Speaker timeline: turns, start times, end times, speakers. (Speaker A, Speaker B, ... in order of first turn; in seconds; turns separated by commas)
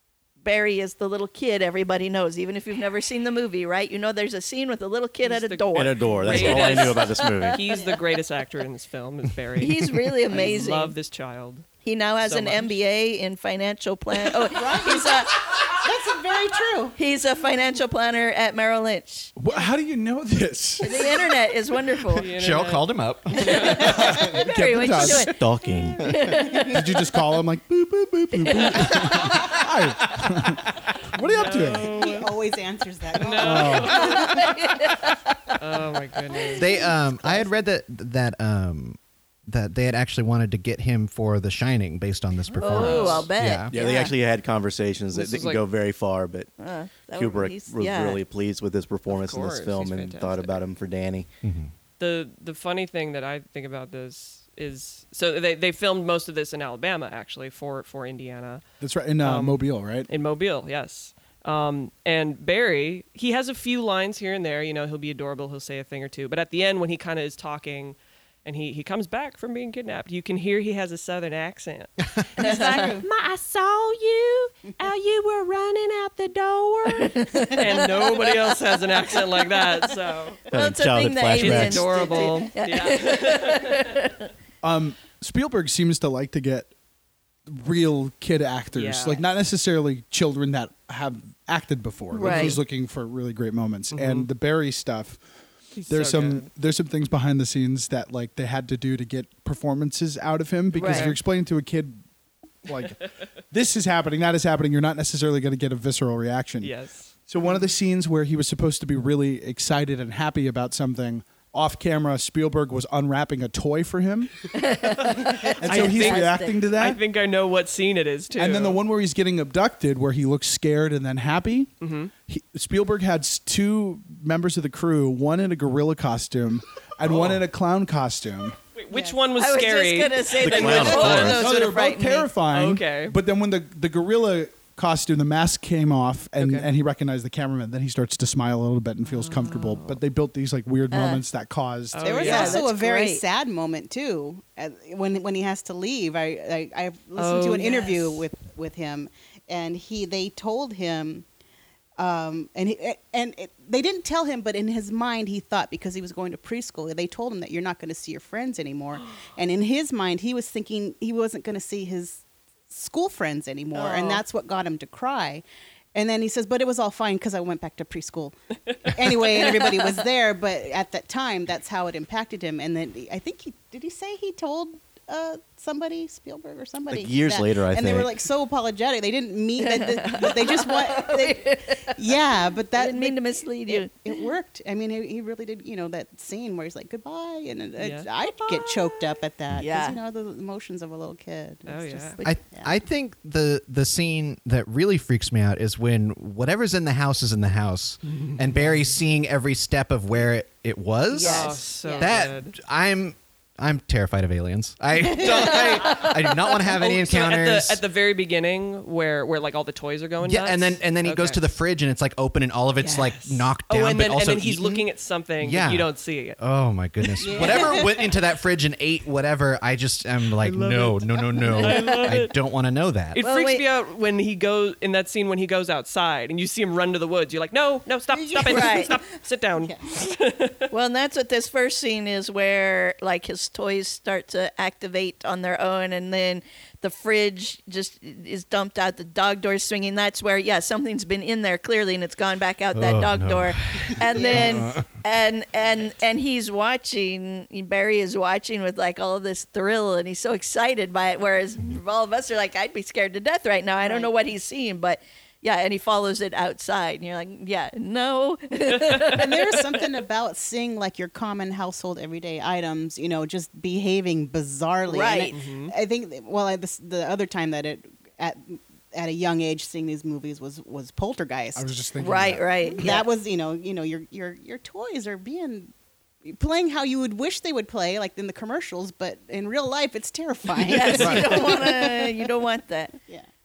Speaker A: 0.4-7.9, Speaker B: 5.2-11.7, Speaker C: 5.7-7.7, Speaker A: 9.6-10.9, Speaker D: 10.3-10.6, Speaker A: 11.8-15.4, Speaker B: 12.2-12.7, Speaker D: 14.4-16.9, Speaker A: 16.9-19.3, Speaker E: 19.4-21.4, Speaker A: 20.8-22.2, Speaker B: 22.1-24.1, Speaker F: 22.3-24.3, Speaker A: 23.4-25.3, Speaker E: 23.7-25.4, Speaker C: 25.3-26.1, Speaker A: 26.0-26.9, Speaker E: 26.5-32.0, Speaker A: 28.5-29.4, Speaker F: 29.0-29.2, Speaker B: 31.2-32.4, Speaker D: 31.8-34.6, Speaker B: 33.1-34.5, Speaker E: 33.4-34.0, Speaker A: 33.9-35.1, Speaker B: 35.6-36.7, Speaker D: 36.4-37.5, Speaker F: 36.5-43.7, Speaker B: 42.5-43.3, Speaker A: 42.6-44.1, Speaker C: 43.7-46.5, Speaker B: 45.1-45.6, Speaker A: 46.6-48.2, Speaker C: 47.1-51.3, Speaker B: 49.1-50.6, Speaker F: 51.4-51.7, Speaker B: 52.0-58.6, Speaker E: 58.8-60.1, Speaker B: 59.2-80.4, Speaker D: 72.4-73.0, Speaker A: 72.4-72.9, Speaker A: 76.9-77.9, Speaker D: 77.5-78.2, Speaker C: 80.5-82.1, Speaker A: 80.5-84.3, Speaker B: 81.4-84.0, Speaker D: 81.9-82.5, Speaker E: 84.6-86.7, Speaker E: 87.5-95.2, Speaker B: 88.7-89.3, Speaker A: 92.1-92.6, Speaker B: 92.2-92.6, Speaker B: 93.9-94.3, Speaker B: 95.7-96.5, Speaker E: 95.9-102.0, Speaker A: 100.7-101.1, Speaker B: 100.8-101.2, Speaker E: 102.7-106.7, Speaker B: 102.8-103.1, Speaker B: 106.6-107.1, Speaker E: 107.3-114.4, Speaker A: 114.5-116.6, Speaker E: 115.2-117.0, Speaker B: 115.6-118.8, Speaker E: 118.3-121.7, Speaker B: 121.8-122.1, Speaker E: 122.3-128.6, Speaker B: 127.0-127.4, Speaker B: 128.7-131.5, Speaker D: 128.9-129.2, Speaker A: 129.4-132.3, Speaker C: 130.4-131.4, Speaker E: 130.8-142.1, Speaker B: 132.5-133.2, Speaker B: 136.4-136.7, Speaker B: 139.1-140.0, Speaker A: 140.9-141.2, Speaker B: 141.9-142.7, Speaker D: 142.0-151.2, Speaker A: 142.2-143.2, Speaker B: 147.1-148.2, Speaker D: 152.0-165.4, Speaker A: 163.7-164.2, Speaker D: 165.9-192.7, Speaker A: 169.6-170.0, Speaker C: 176.9-178.1, Speaker A: 179.6-182.0, Speaker A: 182.8-183.9, Speaker B: 187.8-189.1, Speaker A: 189.5-190.0, Speaker B: 191.7-192.2, Speaker F: 192.2-207.8, Speaker B: 198.1-198.9, Speaker A: 201.2-201.6, Speaker B: 201.2-202.6, Speaker D: 201.8-202.2, Speaker D: 205.2-205.8, Speaker B: 205.2-206.1, Speaker B: 206.7-211.4, Speaker F: 210.2-214.9, Speaker B: 212.8-216.4, Speaker F: 215.4-223.2, Speaker B: 217.0-217.9, Speaker D: 217.2-218.1, Speaker B: 220.4-222.3, Speaker A: 221.6-222.1, Speaker B: 223.1-230.7, Speaker A: 223.2-223.6, Speaker D: 228.1-230.0, Speaker A: 228.4-228.9, Speaker A: 230.7-259.6, Speaker F: 242.7-244.8, Speaker D: 244.1-244.8, Speaker D: 253.8-254.1, Speaker D: 259.0-271.8, Speaker A: 264.9-265.3, Speaker B: 265.3-265.7, Speaker E: 271.5-272.5, Speaker A: 272.0-273.1, Speaker D: 272.6-275.7, Speaker D: 276.2-282.3, Speaker A: 280.6-282.9, Speaker E: 281.0-281.4, Speaker D: 283.0-283.3